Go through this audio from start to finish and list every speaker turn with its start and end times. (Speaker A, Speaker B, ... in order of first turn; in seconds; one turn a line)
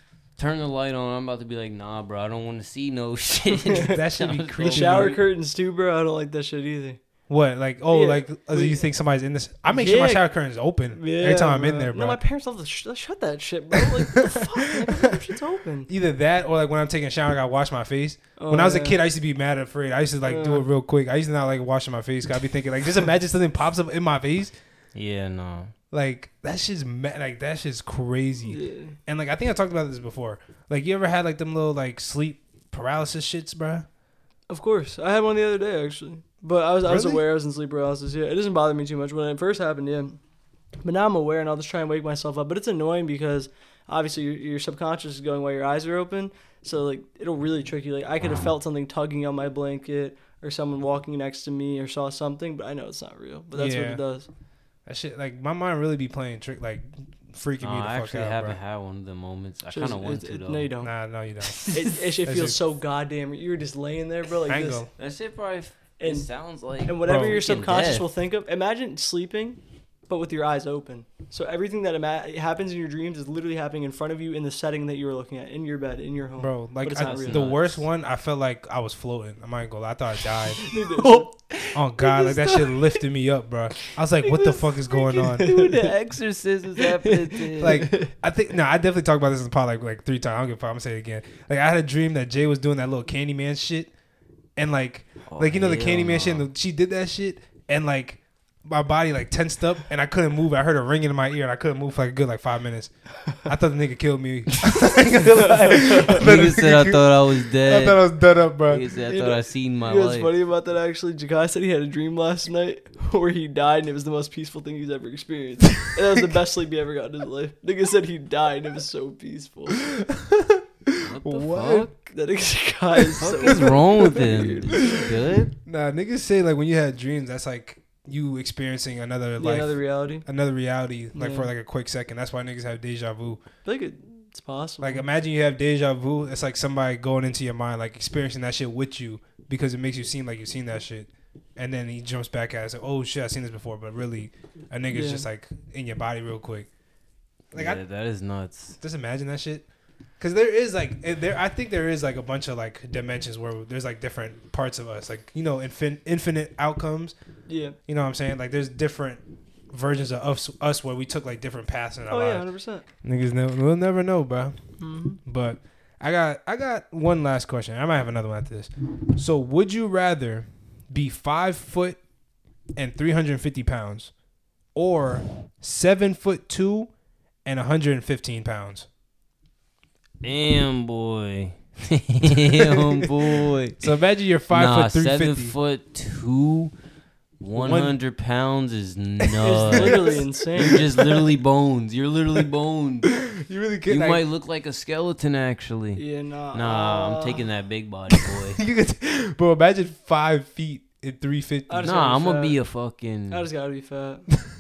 Speaker A: 0.4-5.2
Speaker B: 3.5-4.0
Speaker C: 3.8-5.2
Speaker B: 4.6-7.0
Speaker C: 7.3-12.2
Speaker B: 7.9-8.8
Speaker B: 9.7-10.3
Speaker B: 10.9-15.9
Speaker C: 13.7-15.1
Speaker C: 15.9-24.5
Speaker B: 18.4-19.0
Speaker B: 20.2-20.6
Speaker A: 24.9-25.7
Speaker C: 25.9-33.9
Speaker B: 28.4-28.9
Speaker B: 34.5-40.2
Speaker C: 36.8-37.2
Speaker B: 40.8-54.3
Speaker A: 48.2-48.5
Speaker C: 53.5-54.0
Speaker C: 54.9-58.6
Speaker A: 57.6-60.7
Speaker B: 59.7-60.9
Speaker C: 60.8-61.7
Speaker B: 61.7-64.8
Speaker C: 62.2-62.6
Speaker C: 64.5-64.9
Speaker A: 65.0-68.1
Speaker B: 66.0-66.3
Speaker B: 66.8-77.5
Speaker C: 76.4-80.7
Speaker A: 77.0-77.8
Speaker B: 80.5-83.0
Speaker A: 81.0-81.2
Speaker C: 81.7-85.6
Speaker B: 83.8-85.9
Speaker A: 85.3-87.9
Speaker B: 86.8-88.1
Speaker C: 87.6-93.9
Speaker C: 94.5-108.8
Speaker A: 95.3-96.5
Speaker B: 104.6-106.3
Speaker A: 105.9-108.0
Speaker A: 108.7-110.3
Speaker B: 109.0-119.8
Speaker C: 119.8-121.9
Speaker A: 121.0-121.9
Speaker B: 122.0-125.1
Speaker A: 123.2-125.5
Speaker C: 124.7-125.1
Speaker C: 125.7-133.4
Speaker B: 129.4-130.2
Speaker B: 131.1-131.5
Speaker B: 133.6-135.0
Speaker C: 134.8-146.7
Speaker B: 144.9-145.2
Speaker C: 147.5-147.8
Speaker A: 147.5-148.8
Speaker C: 148.8-149.6
Speaker C: 150.2-157.1
Speaker B: 157.5-157.8
Speaker C: 157.9-162.4
Speaker B: 162.1-162.8
Speaker C: 163.0-164.6
Speaker B: 164.8-165.2
Speaker C: 165.2-172.0
Speaker C: 172.8-174.1
Speaker C: 174.7-176.9
Speaker C: 177.4-178.9
Speaker A: 180.2-183.8
Speaker C: 182.3-183.3
Speaker C: 183.8-185.5
Speaker A: 184.5-186.7
Speaker A: 187.4-193.1
Speaker C: 187.6-188.0
Speaker C: 189.2-191.3
Speaker B: 189.4-190.8
Speaker C: 193.1-194.2
Speaker A: 193.9-198.6
Speaker B: 195.9-197.4
Speaker C: 198.2-201.9
Speaker B: 201.7-202.6
Speaker A: 201.8-203.4
Speaker B: 203.3-204.2